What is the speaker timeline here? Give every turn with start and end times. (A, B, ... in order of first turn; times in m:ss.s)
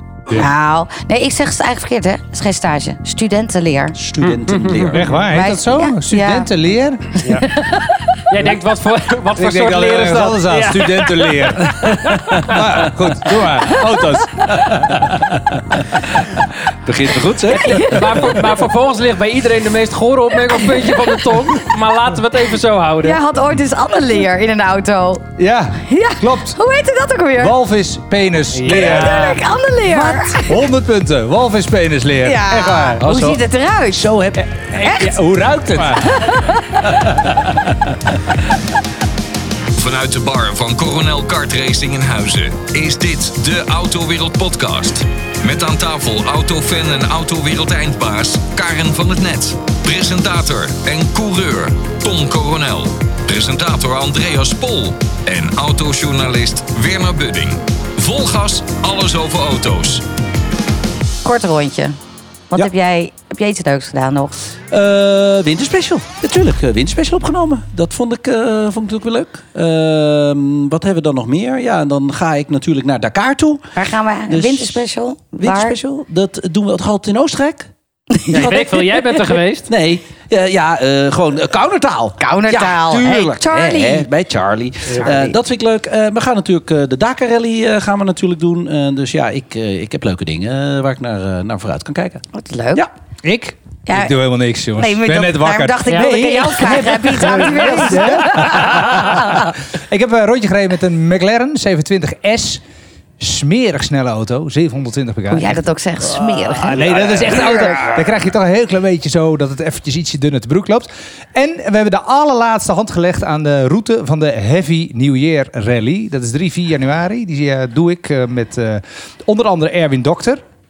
0:00.3-0:04.0 A
0:04.0-0:05.2 B
0:04.2-0:05.1 C
0:04.9-0:07.1 D
0:05.3-0:06.5 A
0:07.2-0:08.0 A
0:08.3-0:12.6 C
0:09.4-0:16.2 D
0:13.7-0:14.0 A
0:16.8-0:17.7 B
0:17.5-0:18.3 A
0:17.6-0:23.2 C
0:18.0-0:18.5 D
0:20.5-0:21.1 A
0:23.0-0:27.5 A
0:25.4-0:26.6 D
0:27.4-0:29.4 D
0:28.5-0:29.4 C
0:28.7-0:30.6 A
0:30.4-0:33.0 D
0:32.2-0:34.1 A
0:33.0-0:33.4 B
0:33.9-0:34.4 B
0:34.4-0:37.9 D
0:34.8-0:35.2 A
0:35.8-0:36.8 A
0:39.8-1:00.0 E
1:01.2-1:02.0 A
1:02.5-1:04.4 A
1:04.7-1:13.7 B
1:13.8-1:15.8 A
1:14.3-1:14.8 B
1:15.4-1:17.7 B
1:18.1-1:19.0 A
1:18.3-1:19.7 C
1:18.3-1:19.0 B
1:19.7-1:32.2 B
1:22.2-1:24.1 A
1:24.9-1:25.1 C
1:25.0-1:25.4 A
1:32.3-1:32.9 A
1:33.2-1:42.6 D
1:33.9-1:34.2 A
1:34.8-1:38.5 A
1:35.9-1:36.3 C
1:37.2-1:39.2 C
1:43.2-1:45.6 D
1:45.3-1:47.8 A
1:46.6-2:00.4 D
1:46.6-1:48.0 B